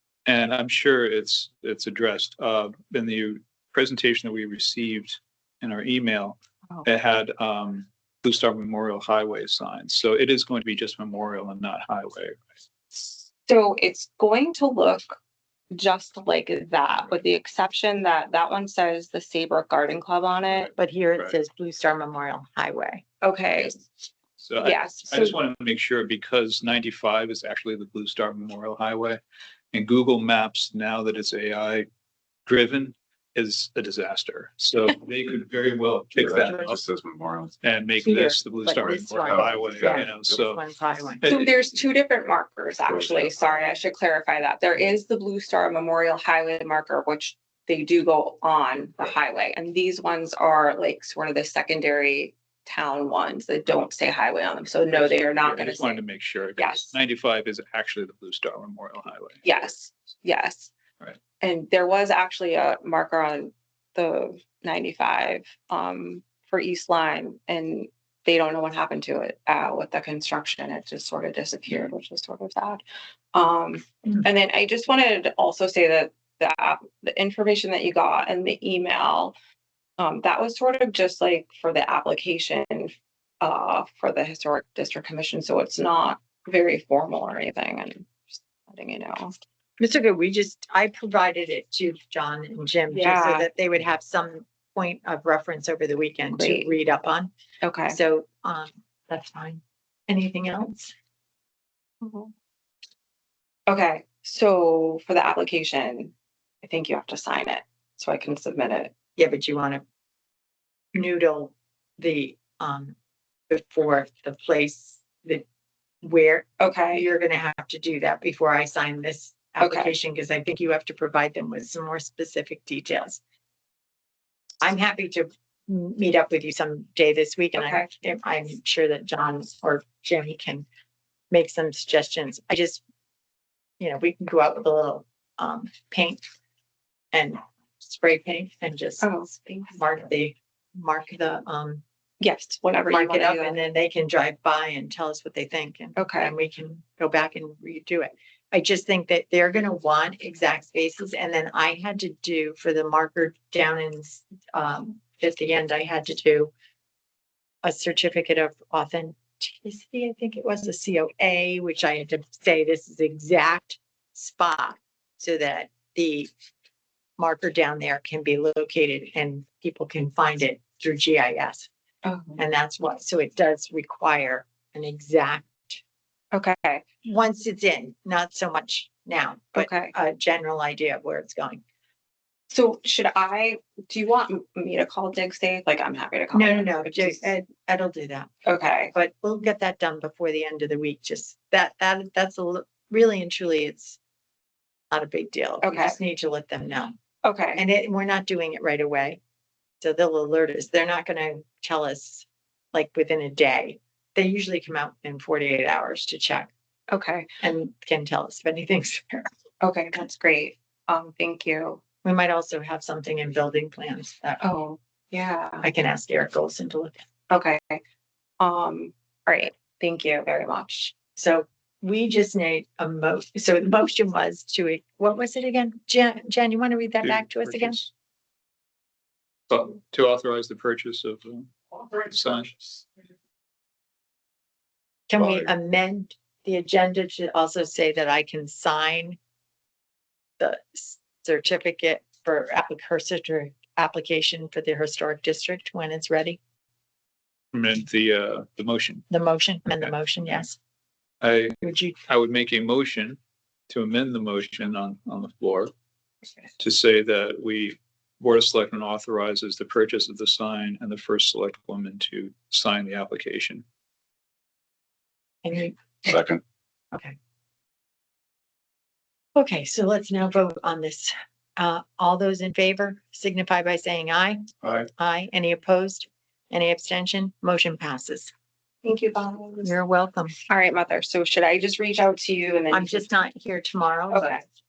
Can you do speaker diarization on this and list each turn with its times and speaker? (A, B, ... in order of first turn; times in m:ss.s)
0:00.3-0:12.4 A
0:12.9-0:15.2 B
0:15.7-0:20.7 B
0:20.8-0:23.0 C
0:23.2-0:23.8 B
0:24.4-0:29.2 A
0:24.6-0:25.4 B
0:29.7-0:31.9 A
0:32.5-0:36.8 A
0:36.2-0:37.5 D
0:37.6-0:40.6 A
0:38.0-0:41.4 C
0:38.8-0:40.4 D
0:41.3-0:56.0 B
0:42.9-0:43.5 D
0:54.9-0:59.4 A
0:56.6-0:56.9 B
0:59.4-1:00.7 B
1:01.4-1:12.8 B
1:13.3-1:19.4 B
1:20.0-1:29.4 B
1:29.8-1:37.3 C
1:32.9-1:33.5 B
1:36.3-1:36.7 B
1:37.6-1:38.0 B
1:37.9-1:40.9 C
1:42.0-1:42.3 B
1:43.7-1:48.9 B
1:49.2-1:49.8 C
1:50.9-1:53.0 C
1:53.5-1:55.4 C
1:56.0-2:03.2 C
1:56.6-1:57.0 B
1:59.6-1:59.9 B
2:04.6-2:10.7 C
2:07.6-2:07.8 B
2:11.3-2:12.8 C
2:13.8-2:16.2 C
2:17.1-2:19.1 C
2:19.0-2:19.8 B
2:19.7-2:21.8 C
2:22.2-2:23.6 B
2:22.9-2:36.5 C
2:26.0-2:26.3 B
2:37.6-2:46.3 C
2:47.2-2:51.7 C
2:52.0-2:52.4 B
2:52.4-2:55.8 C
2:56.3-2:56.8 B
2:57.0-3:01.6 C
2:59.6-2:59.9 B
3:02.5-3:07.3 B
3:06.3-3:08.3 C
3:08.5-3:08.9 B
3:08.9-3:14.0 C
3:14.9-3:17.0 C
3:15.6-3:16.0 B
3:17.2-3:17.6 B
3:17.6-3:19.2 C
3:19.8-3:26.5 C
3:26.9-3:27.3 B
3:27.4-3:29.3 C
3:29.6-3:31.8 B
3:32.0-3:34.4 C
3:34.4-3:35.7 B
3:35.6-3:37.0 C
3:37.3-3:37.8 B
3:38.4-3:40.9 B
3:41.2-3:47.8 C
3:47.0-3:47.9 A
3:49.5-3:52.6 A
3:55.1-3:59.2 C
3:55.2-3:55.5 D
4:00.4-4:06.4 C
4:07.5-4:09.1 A
4:09.1-4:10.6 C
4:11.2-4:15.7 A
4:11.6-4:12.0 C
4:16.6-4:23.6 A
4:25.4-4:25.8 C
4:26.1-4:26.4 D
4:29.4-4:38.3 C
4:38.8-4:39.8 B
4:39.6-4:40.4 C
4:40.5-4:43.1 B
4:42.7-4:44.4 C
4:44.1-4:44.4 B